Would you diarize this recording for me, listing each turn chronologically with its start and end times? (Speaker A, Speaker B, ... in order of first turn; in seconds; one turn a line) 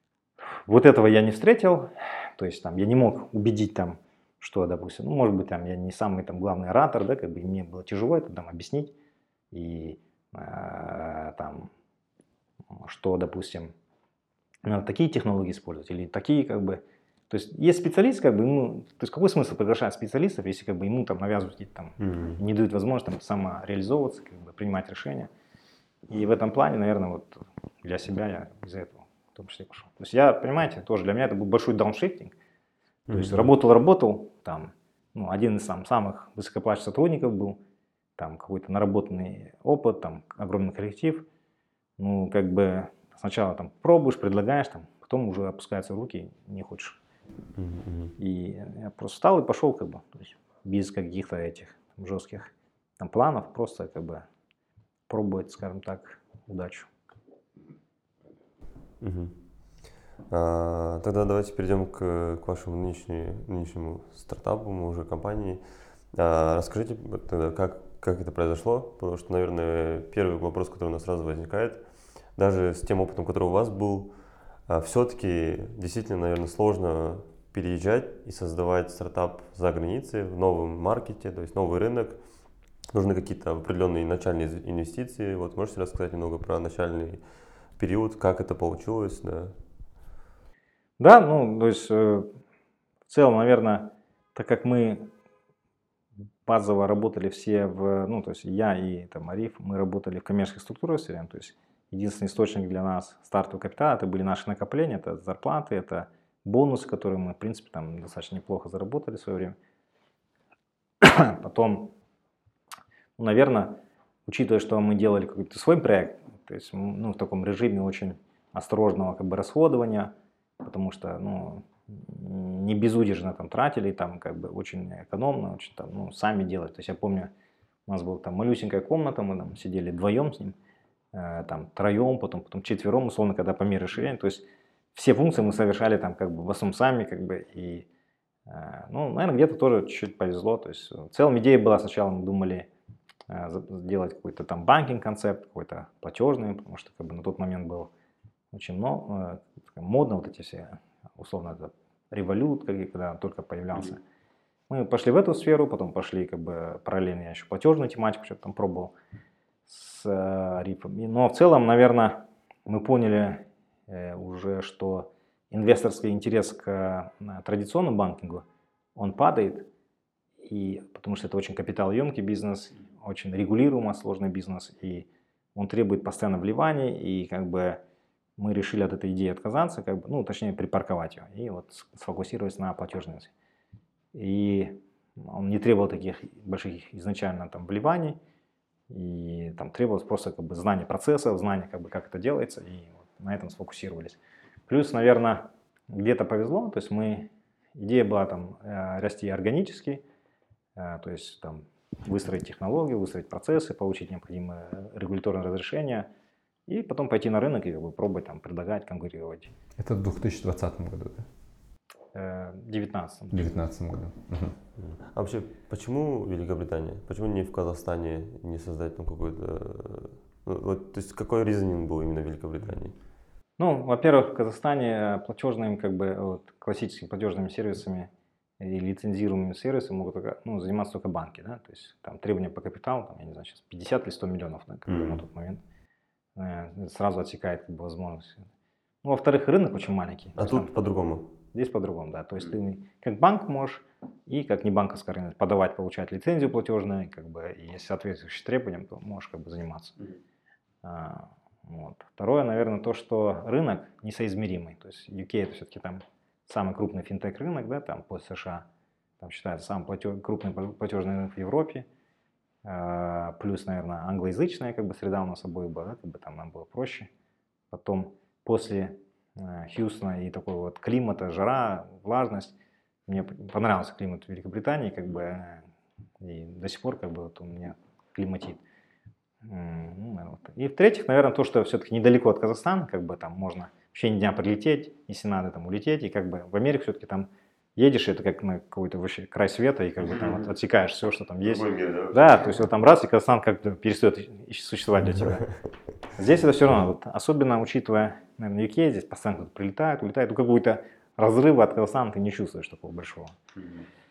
Speaker A: 0.7-8.9
Speaker A: 9.5-11.7
Speaker A: 12.7-13.7
Speaker A: 14.7-25.3
Speaker B: 22.0-22.4
Speaker A: 26.1-32.4
Speaker B: 33.1-33.5
Speaker A: 33.1-37.6
Speaker A: 38.2-41.3
Speaker A: 42.0-47.0
Speaker B: 47.6-48.2
Speaker A: 48.2-54.2
Speaker A: 55.1-56.9
Speaker B: 59.0-59.6
Speaker B: 60.3-82.3
Speaker B: 82.9-89.6
Speaker A: 91.0-92.3
Speaker A: 93.1-95.1
Speaker A: 96.5-109.6
Speaker A: 111.0-111.9
Speaker A: 113.2-127.3
Speaker A: 127.9-130.6
Speaker A: 131.1-137.9
Speaker A: 138.5-142.7
Speaker A: 143.3-147.9
Speaker A: 148.5-154.0
Speaker A: 154.7-158.9
Speaker A: 159.7-168.4
Speaker A: 169.0-169.7
Speaker A: 170.4-177.8
Speaker A: 178.4-183.3
Speaker A: 184.1-188.2
Speaker A: 188.9-200.0
Speaker A: 200.8-206.1
Speaker A: 206.7-209.5
Speaker C: 209.8-211.3
Speaker A: 212.1-213.6
Speaker C: 213.3-214.6
Speaker B: 214.8-223.0
Speaker A: 223.6-235.6
Speaker B: 234.9-235.2
Speaker A: 236.4-238.4
Speaker A: 239.0-240.8
Speaker B: 240.4-241.3
Speaker A: 241.5-250.0
Speaker A: 250.8-258.7
Speaker A: 259.2-261.9
Speaker A: 262.6-267.1
Speaker A: 267.7-272.6
Speaker A: 273.1-275.6
Speaker A: 276.2-278.6
Speaker A: 279.4-295.5
Speaker B: 290.1-290.4
Speaker B: 291.4-292.3
Speaker A: 296.1-303.3
Speaker B: 303.6-303.9